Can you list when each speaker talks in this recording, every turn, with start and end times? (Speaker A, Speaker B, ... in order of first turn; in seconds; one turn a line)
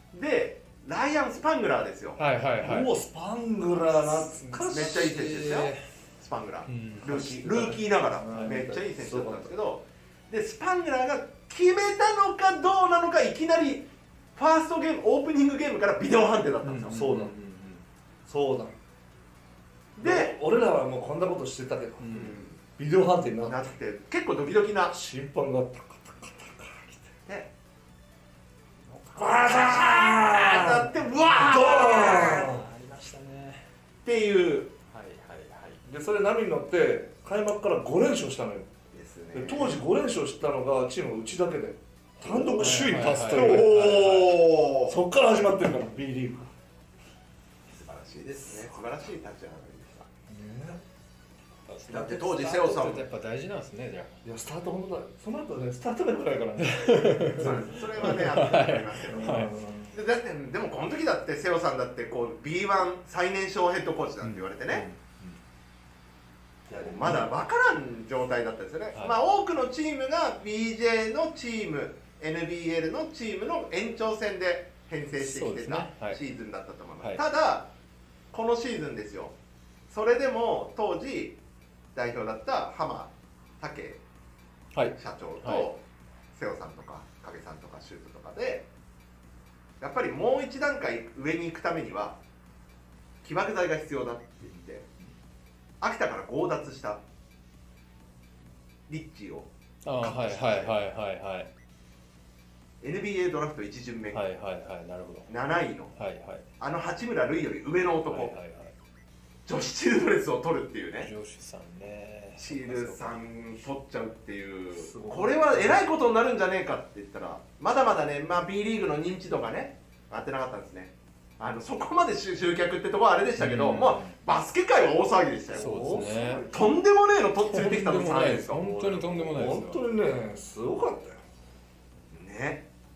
Speaker A: 0.1-2.2
Speaker B: 2.2-2.9
Speaker C: 2.6-5.2
Speaker B: 3.9-5.8
Speaker A: 4.7-17.0
Speaker B: 6.7-8.6
Speaker C: 7.0-9.5
Speaker B: 16.6-17.8
Speaker C: 16.9-17.4
Speaker C: 18.3-18.8
Speaker A: 20.0-20.4
Speaker C: 20.0-23.7
Speaker B: 22.0-22.4
Speaker A: 22.1-22.6
Speaker A: 23.4-24.9
Speaker C: 24.9-27.1
Speaker A: 27.3-27.5
Speaker B: 28.9-29.5
Speaker A: 29.2-32.5
Speaker C: 29.2-32.7
Speaker B: 30.6-33.6
Speaker A: 34.0-34.7
Speaker B: 34.9-35.8
Speaker C: 35.9-38.7
Speaker A: 38.9-39.8
Speaker C: 39.3-44.0
Speaker A: 42.2-45.0
Speaker B: 42.6-44.4
Speaker C: 44.9-46.5
Speaker A: 47.7-50.1
Speaker C: 50.3-50.8
Speaker B: 51.7-54.2
Speaker A: 51.9-53.0
Speaker C: 54.2-58.2
Speaker B: 56.6-59.5
Speaker A: 57.4-64.8
Speaker C: 59.1-59.9
Speaker B: 64.2-65.0
Speaker C: 66.7-67.2
Speaker A: 66.7-77.7
Speaker B: 75.2-76.2
Speaker A: 78.3-79.3
Speaker A: 79.9-81.4
Speaker A: 82.0-84.0
Speaker B: 84.8-85.7
Speaker A: 85.0-85.8
Speaker A: 86.3-88.7
Speaker A: 89.8-92.2
Speaker A: 93.2-94.9
Speaker A: 95.8-97.0
Speaker A: 98.9-99.5
Speaker B: 99.8-101.5
Speaker A: 100.0-100.7
Speaker A: 102.8-104.2
Speaker B: 104.1-105.3
Speaker A: 105.3-105.9
Speaker B: 106.0-106.4
Speaker A: 106.6-108.3
Speaker B: 108.1-108.8
Speaker A: 109.5-111.1
Speaker B: 111.0-113.2
Speaker A: 112.4-129.3
Speaker C: 114.7-115.8
Speaker B: 123.4-124.2
Speaker C: 125.5-126.8
Speaker B: 125.5-126.5
Speaker B: 127.4-129.8
Speaker C: 129.3-131.2
Speaker A: 132.1-132.6